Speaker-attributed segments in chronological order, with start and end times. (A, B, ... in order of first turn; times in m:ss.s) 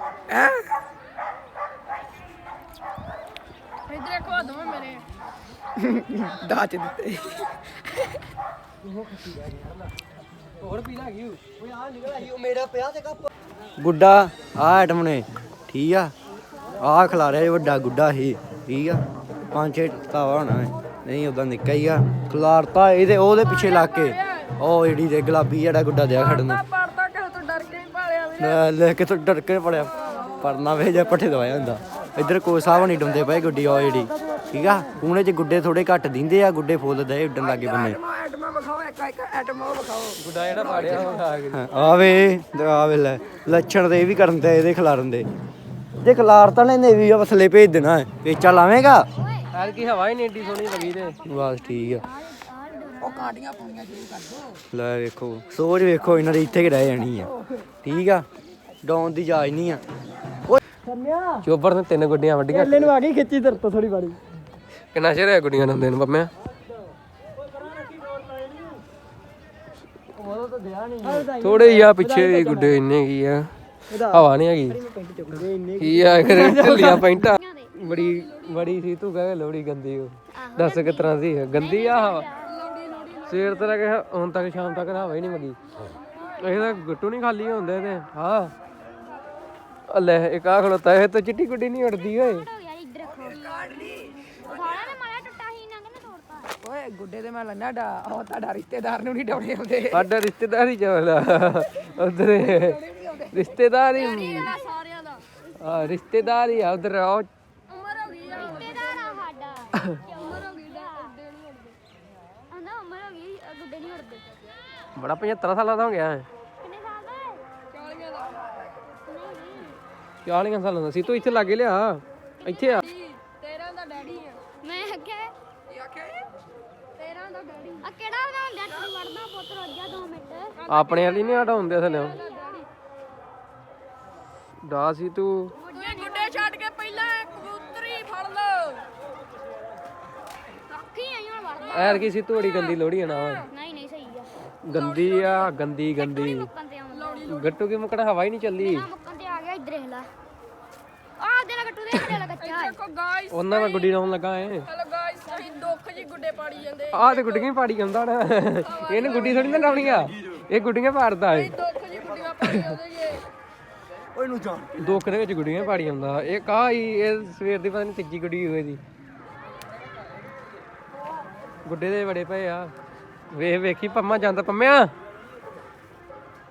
0:00.3-0:00.7 A
0:03.9-0:05.0 B
0:05.8-0:08.1 A
0:10.6-0:11.4 C
0:11.6-0:13.2 D
0:13.8-0:16.1 D
0:16.8-0:26.6 D
0:26.2-0:28.5 B
0:28.4-0:38.0 D
0:37.4-0:41.2 A
0:40.2-0:41.6 C
0:41.5-0:45.3 D
0:46.0-0:49.1 D
0:49.2-0:49.5 E
0:49.5-0:51.2 C
0:50.5-0:53.4 E
0:51.2-0:52.1 D
0:53.0-0:54.5 A
0:54.7-0:57.3 D
0:57.8-0:58.2 D
0:58.8-0:59.8 D
1:01.4-1:03.0 C
1:03.1-1:04.2 D
1:03.1-1:03.8 A
1:04.9-1:06.3 C
1:10.4-1:11.2 D
1:11.0-1:14.8 C
1:13.9-1:14.2 D
1:14.9-1:16.8 D
1:15.7-1:22.3 C
1:17.3-1:17.7 E
1:18.1-1:18.5 B
1:20.3-1:22.6 E
1:22.5-1:23.5 B
1:23.2-1:25.6 C
1:26.4-1:28.5 C
1:29.9-1:32.5 C
1:32.1-1:33.6 E
1:33.4-1:34.3 A
1:34.4-1:36.5 E
1:36.6-1:40.1 A
1:39.9-1:44.6 C
1:42.9-1:43.2 A
1:43.9-1:45.2 B
1:45.6-1:47.3 C
1:47.7-1:49.2 B
1:48.3-1:51.2 E
1:50.1-1:51.8 B
1:52.5-1:54.4 E
1:54.9-1:56.3 C
1:56.6-1:57.4 E
1:57.7-1:58.5 B
1:59.0-1:59.8 E
2:00.2-2:02.9 C
2:02.8-2:04.5 B
2:04.5-2:05.3 E
2:07.0-2:07.8 B
2:07.8-2:10.6 E
2:10.6-2:12.2 C
2:10.7-2:12.6 B
2:12.2-2:12.6 E
2:14.6-2:15.5 C
2:15.6-2:16.5 E
2:15.7-2:18.9 B
2:20.7-2:22.1 E
2:21.7-2:23.5 C
2:23.5-2:27.3 E
2:24.6-2:26.5 C
2:27.0-2:27.5 B
2:27.2-2:28.9 C
2:28.5-2:30.1 E
2:31.2-2:32.8 E
2:32.4-2:33.9 B
2:33.3-2:34.7 C
2:34.7-2:37.5 B
2:36.9-2:41.6 C
2:38.7-2:39.7 B
2:41.4-2:43.2 B
2:42.4-2:42.8 C
2:44.1-2:45.0 D
2:44.8-2:48.8 C
2:51.6-2:52.7 C
2:53.3-2:54.9 C